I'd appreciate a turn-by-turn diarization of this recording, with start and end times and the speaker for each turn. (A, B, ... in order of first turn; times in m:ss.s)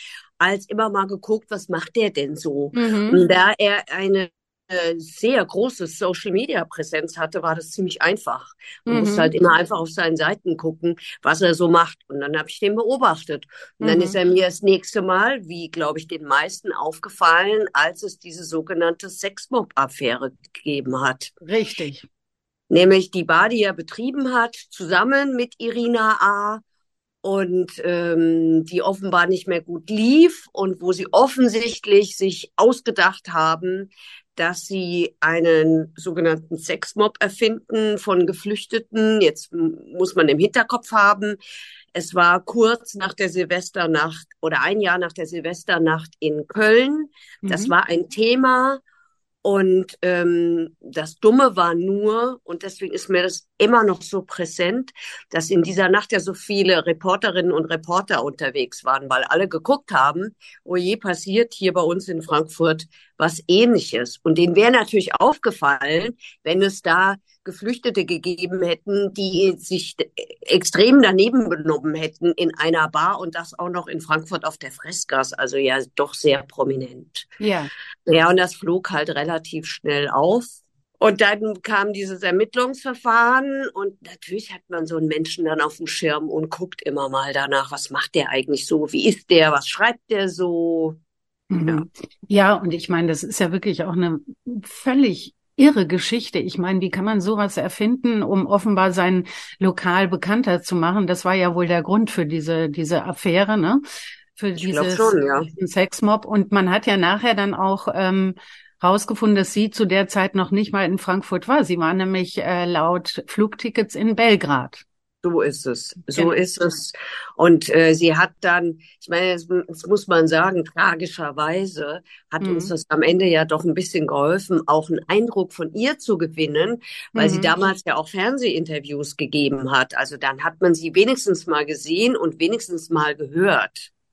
0:00.4-0:21.3 A
0:02.7-0:03.2 B
0:08.9-0:09.3 B
0:13.8-0:14.2 B
0:21.4-0:22.1 B
0:22.7-0:26.6 A
0:27.2-0:41.4 A
0:41.9-0:48.8 A
0:47.4-0:47.7 B
0:49.4-1:17.4 A
1:17.4-1:17.7 B
1:18.1-1:31.0 A
1:31.5-1:43.8 B
1:44.4-1:54.8 B
1:44.6-1:45.5 A
1:55.2-2:13.9 A
2:02.4-2:02.7 B
2:07.2-2:07.5 B